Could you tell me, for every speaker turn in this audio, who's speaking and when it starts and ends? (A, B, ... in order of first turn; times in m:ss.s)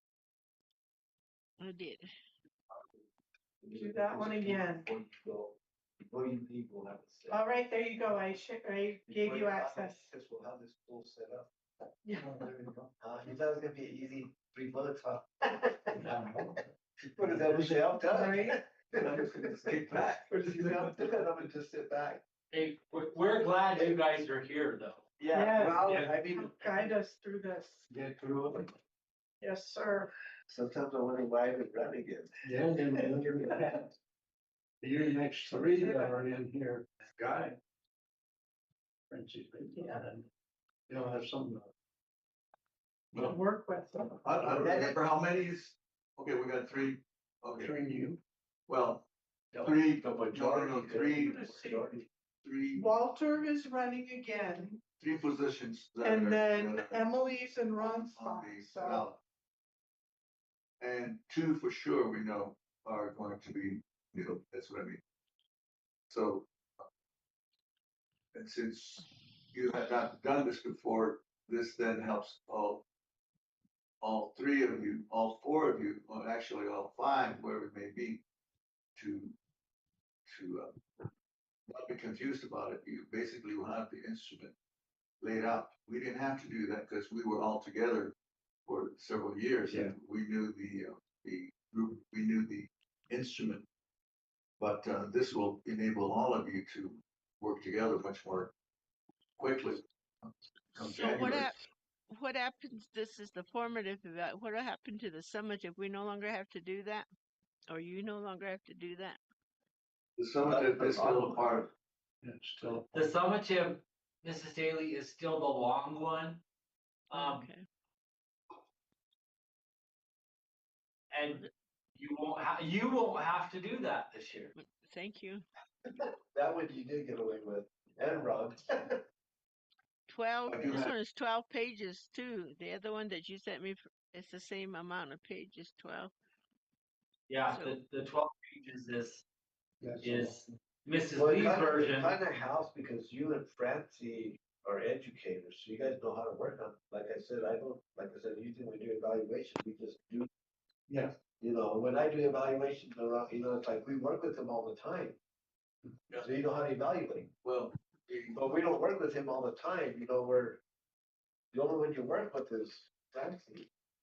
0:01.6-0:02.1 A
0:03.6-0:07.4 B
0:03.7-0:04.9 C
0:07.3-0:10.1 C
0:09.1-0:11.5 B
0:12.0-0:12.5 C
0:12.4-0:16.4 B
0:16.2-0:16.5 D
0:17.2-0:22.2 B
0:17.2-0:17.9 D
0:18.1-0:18.6 C
0:19.0-0:21.0 E
0:22.5-0:25.0 F
0:25.2-0:26.9 B
0:25.3-0:27.9 C
0:27.9-0:28.7 D
0:29.4-0:30.1 C
0:30.5-0:33.5 B
0:32.4-0:33.9 D
0:34.8-0:37.6 D
0:35.8-0:36.2 C
0:39.1-0:40.3 D
0:39.7-0:40.1 C
0:40.9-0:41.7 D
0:43.2-0:44.2 C
0:44.2-0:47.8 E
0:44.4-0:45.0 B
0:47.5-0:48.2 D
0:48.7-0:49.1 E
0:49.6-0:51.4 E
0:50.0-0:52.0 B
0:51.2-0:51.9 C
0:52.4-0:52.9 E
0:52.7-0:54.8 C
0:55.0-0:57.0 E
0:56.0-0:59.1 C
0:57.8-0:59.2 E
1:00.8-1:05.0 E
1:06.1-1:06.5 E
1:08.3-1:12.8 E
1:14.0-1:18.2 E
1:19.0-1:19.4 E
1:20.3-1:20.8 E
1:21.7-1:24.6 E
1:25.2-1:28.2 E
1:28.7-1:33.7 E
1:29.7-1:29.9 D
1:34.6-1:38.5 E
1:39.4-1:41.6 E
1:40.8-1:47.1 A
1:47.7-1:49.2 A
1:50.2-1:51.7 E
1:50.4-1:51.7 B
1:52.2-1:52.9 D
1:52.9-1:56.4 F
1:57.1-1:57.5 F
1:57.1-1:57.6 A
2:01.1-2:01.4 F
2:02.0-2:04.5 F
2:04.6-2:05.4 A
2:06.0-2:09.0 B
2:10.1-2:16.1 A
2:10.5-2:10.9 E
2:17.3-2:19.2 F
2:17.5-2:17.8 A
2:19.8-2:20.4 D
2:20.0-2:22.2 F
2:21.1-2:30.3 B
2:30.9-2:31.2 D
2:31.4-2:35.2 B
2:36.2-2:37.3 B
2:37.4-2:38.4 E
2:38.3-2:40.6 B
2:41.5-2:43.7 B